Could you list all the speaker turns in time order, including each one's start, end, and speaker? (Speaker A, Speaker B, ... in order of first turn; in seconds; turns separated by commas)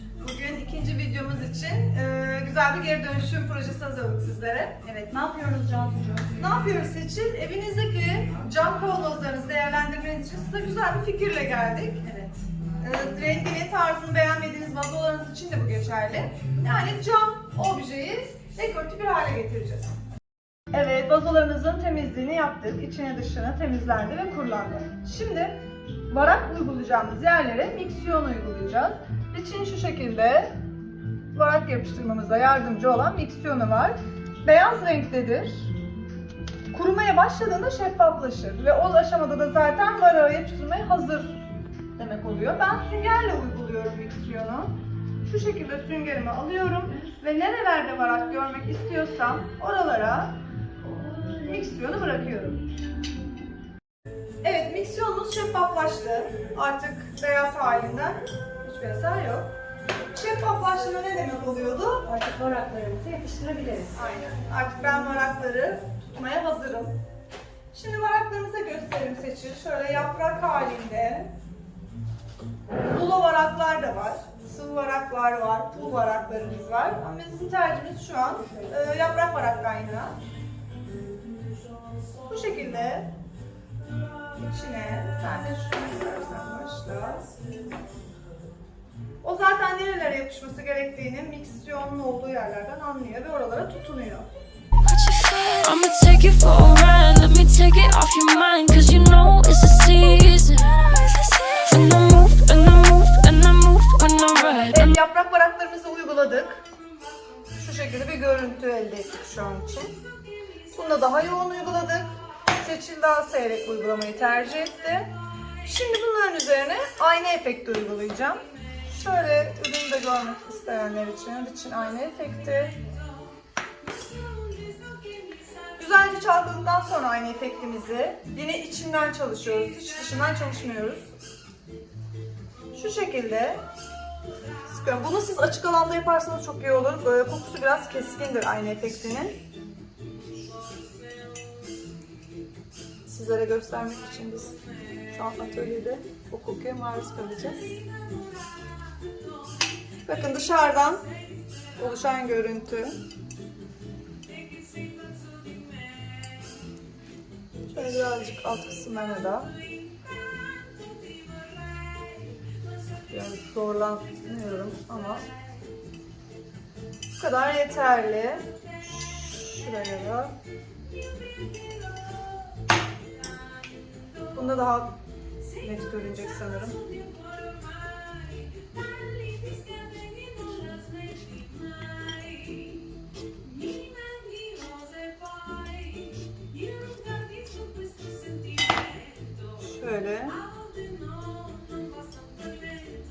Speaker A: 0.2-4.8, Speaker B: 4.8-6.4, Speaker A: 6.4-19.9, Speaker A: 20.7-25.6, Speaker A: 26.1-30.5, Speaker A: 31.3-35.7, Speaker A: 36.7-41.4, Speaker A: 42.0-50.4, Speaker A: 51.4-52.6, Speaker A: 54.4-59.5, Speaker A: 60.0-62.1, Speaker B: 62.1-64.0, Speaker A: 64.0-67.0, Speaker A: 67.7-71.3, Speaker A: 72.9-80.2, Speaker A: 82.3-83.1, Speaker A: 84.3-87.3, Speaker A: 89.2-94.3, Speaker C: 94.8-104.9, Speaker A: 104.4-106.6, Speaker A: 107.5-110.0, Speaker A: 110.7-115.1, Speaker A: 115.6-122.8, Speaker A: 125.8-131.1, Speaker A: 132.7-133.6, Speaker A: 134.7-139.4, Speaker A: 143.1-144.6, Speaker A: 145.1-147.8, Speaker A: 150.1-151.1, Speaker A: 151.8-152.9, Speaker A: 157.7-159.5, Speaker A: 163.1-165.3, Speaker A: 167.2-170.3, Speaker A: 174.3-175.0, Speaker A: 175.6-176.8, Speaker C: 180.4-180.8, Speaker C: 182.2-182.6, Speaker C: 183.8-186.1, Speaker C: 186.8-189.4, Speaker A: 189.6-190.5, Speaker C: 190.9-191.9